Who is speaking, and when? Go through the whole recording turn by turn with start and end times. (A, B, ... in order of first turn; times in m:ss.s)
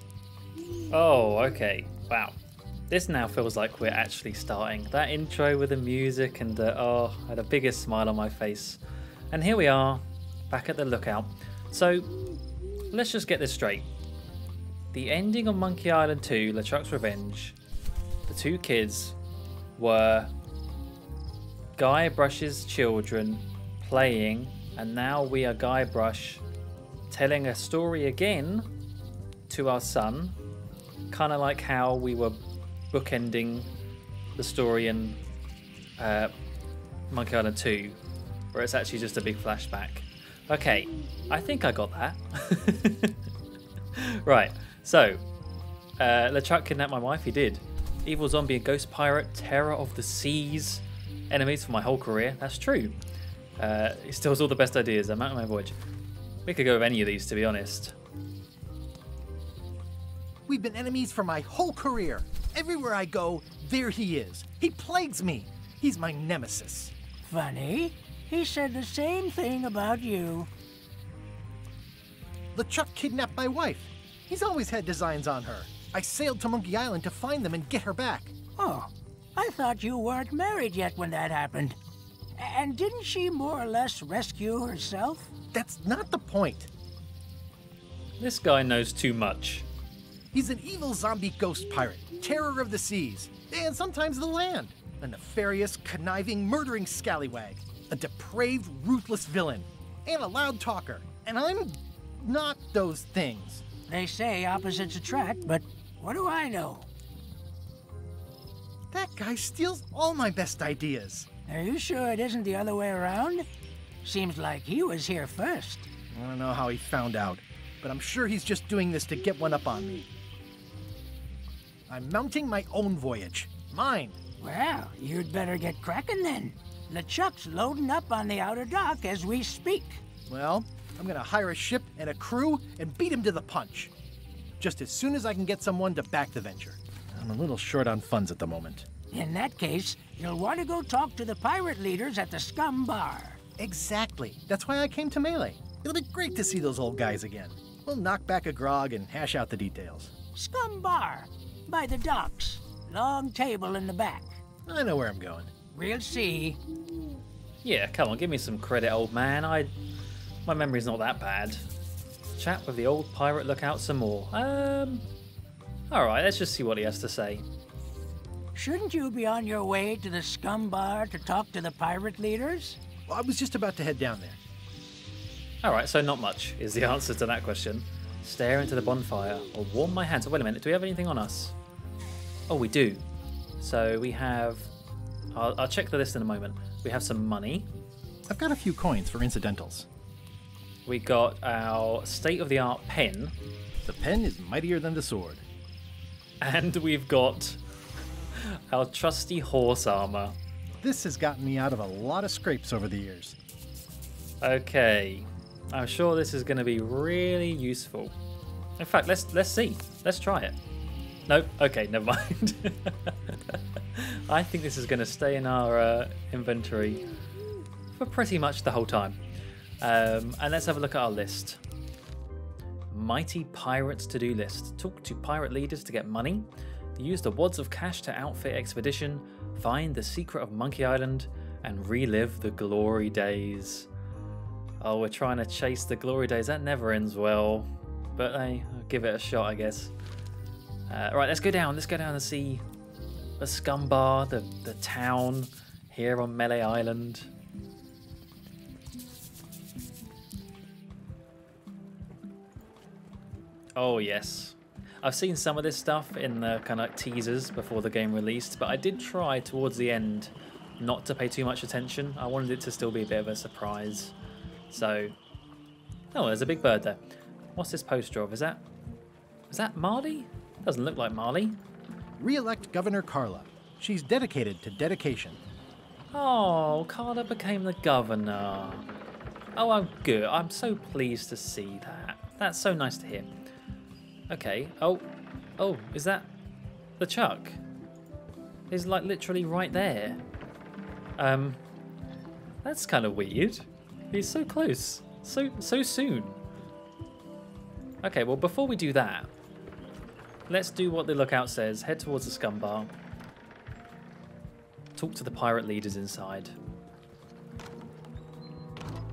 0:00.9-0:02.4 A
0:02.9-0:08.8 A
0:09.3-0:12.1 A
0:12.9-0:13.9 A
0:14.9-0:17.6 A
0:18.3-0:19.2 A
0:19.8-0:20.3 A
0:21.8-0:26.4 A
0:27.1-0:28.7 A
0:29.5-0:30.4 A
0:31.1-0:32.4 A
0:32.9-0:33.7 A
0:34.4-0:35.2 A
0:36.0-0:36.3 A
0:37.1-0:38.0 A
0:38.5-0:43.2 A
0:43.9-0:45.2 A
0:46.0-0:53.0 A
0:53.6-0:55.8 A
0:56.4-0:57.9 A
1:00.5-1:06.9 B
1:07.2-1:10.5 C
1:12.5-1:18.3 B
1:18.6-1:21.8 C
1:22.4-1:25.3 C
1:25.5-1:26.7 B
1:28.2-1:29.7 A
1:30.3-1:43.7 B
1:43.9-1:46.9 C
1:48.9-1:51.3 B
1:51.5-1:53.4 C
1:54.0-1:55.9 C
1:56.1-2:00.1 B
2:01.9-2:04.2 B
2:04.4-2:10.0 C
2:10.3-2:13.9 B
2:14.6-2:18.9 B
2:19.1-2:23.4 C
2:23.6-2:30.1 B
2:30.3-2:34.4 C
2:34.6-2:35.5 B
2:35.7-2:36.6 C
2:37.6-2:39.7 A
2:40.4-2:41.6 A
2:42.4-2:45.0 A
2:45.9-2:47.4 A
2:48.5-2:52.8 C
2:53.1-2:54.4 B
2:55.6-3:01.5 A
3:02.5-3:03.0 A
3:03.6-3:04.7 A
3:05.3-3:07.7 A
3:08.3-3:09.9 B
3:10.8-3:13.3 A
3:13.8-3:15.4 B
3:16.4-3:17.6 A
3:18.4-3:20.4 A
3:20.8-3:23.4 B
3:24.4-3:28.1 A
3:28.8-3:30.6 A
3:31.3-3:37.0 A
3:37.9-3:39.2 A
3:39.8-3:41.6 A
3:42.9-3:53.9 A
3:54.8-3:59.9 A
4:00.9-4:02.6 A
4:03.4-4:07.3 A
4:13.8-4:24.1 A
4:24.7-4:25.1 A
4:26.1-4:27.0 A
4:27.6-4:28.6 A
4:29.5-4:31.6 A
4:32.2-4:35.4 B
4:36.1-4:38.8 A
4:39.6-4:43.3 A
4:44.3-4:46.3 A
4:47.0-4:47.6 A
4:48.7-4:50.2 A
4:51.2-4:51.6 A
4:52.6-4:56.4 A
4:58.0-4:59.3 A
5:00.5-5:02.9 A
5:05.0-5:06.5 A